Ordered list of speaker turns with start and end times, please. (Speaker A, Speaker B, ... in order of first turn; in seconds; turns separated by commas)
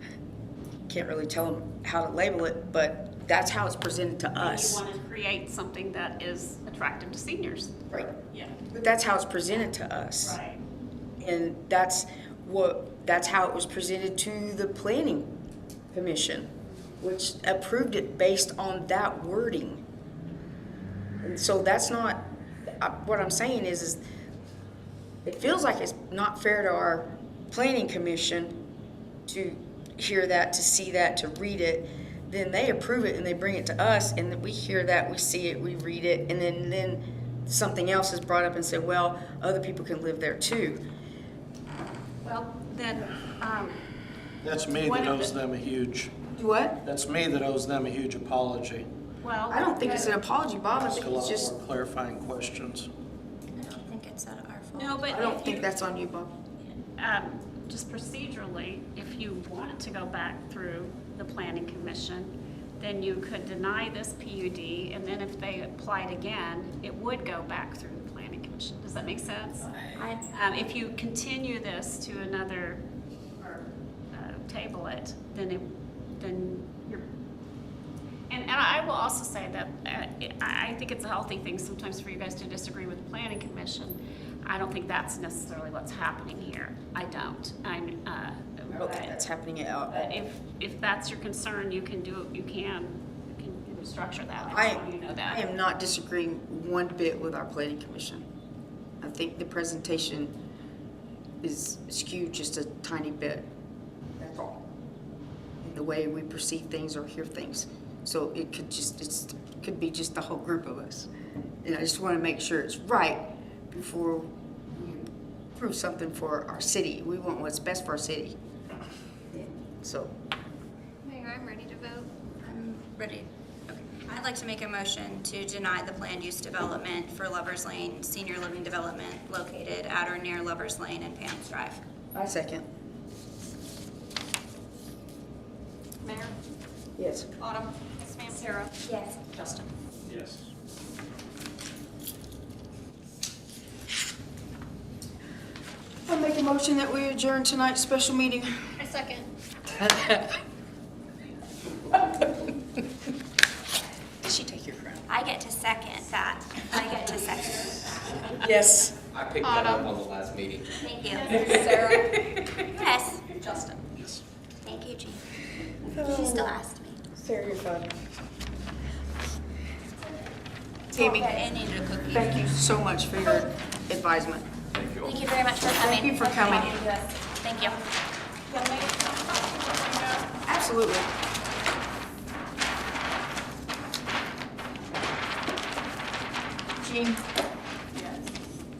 Speaker A: 0.9-4.8, Speaker B: 4.4-7.8, Speaker B: 8.3-8.6, Speaker A: 8.7-10.4, Speaker B: 10.2-10.6, Speaker A: 11.2-15.3, Speaker A: 15.9-19.8, Speaker A: 21.2-24.0, Speaker A: 25.2-28.6, Speaker A: 29.2-40.8, Speaker B: 42.2-43.8, Speaker C: 44.4-46.2, Speaker B: 44.8-45.3, Speaker A: 46.3-46.8, Speaker C: 46.8-48.9, Speaker B: 49.2-50.1, Speaker A: 49.5-51.5, Speaker C: 50.7-52.9, Speaker D: 53.5-55.0, Speaker B: 54.7-55.8, Speaker A: 55.1-56.3, Speaker B: 57.0-69.7, Speaker D: 70.0-70.2, Speaker B: 70.3-72.8, Speaker B: 73.4-77.0, Speaker B: 78.3-89.2, Speaker A: 88.7-90.2, Speaker B: 89.9-95.4, Speaker A: 94.5-98.2, Speaker A: 99.0-100.3, Speaker A: 101.4-103.5, Speaker A: 104.2-104.6, Speaker A: 105.6-111.1, Speaker A: 111.6-118.4, Speaker A: 119.3-120.1, Speaker D: 121.0-131.8, Speaker A: 132.1-132.6, Speaker E: 136.0-136.3, Speaker A: 137.0-137.3, Speaker E: 137.4-138.7, Speaker D: 138.8-139.4, Speaker C: 140.1-140.4, Speaker A: 146.1-148.5, Speaker D: 148.8-149.2, Speaker A: 154.2-155.0, Speaker D: 155.1-157.9, Speaker A: 158.3-159.0, Speaker F: 159.1-160.8, Speaker E: 159.4-159.9, Speaker D: 160.8-162.1, Speaker E: 161.2-161.9, Speaker A: 161.3-162.4, Speaker D: 162.7-163.8, Speaker D: 164.6-165.2, Speaker A: 165.9-166.6, Speaker D: 165.9-167.0, Speaker A: 167.1-167.9, Speaker A: 170.9-171.4, Speaker D: 170.9-172.4, Speaker A: 172.1-174.5, Speaker F: 174.8-175.1, Speaker D: 175.0-177.8, Speaker A: 175.7-176.8, Speaker E: 178.5-180.2, Speaker B: 179.2-179.8, Speaker A: 180.5-181.1, Speaker A: 186.8-187.2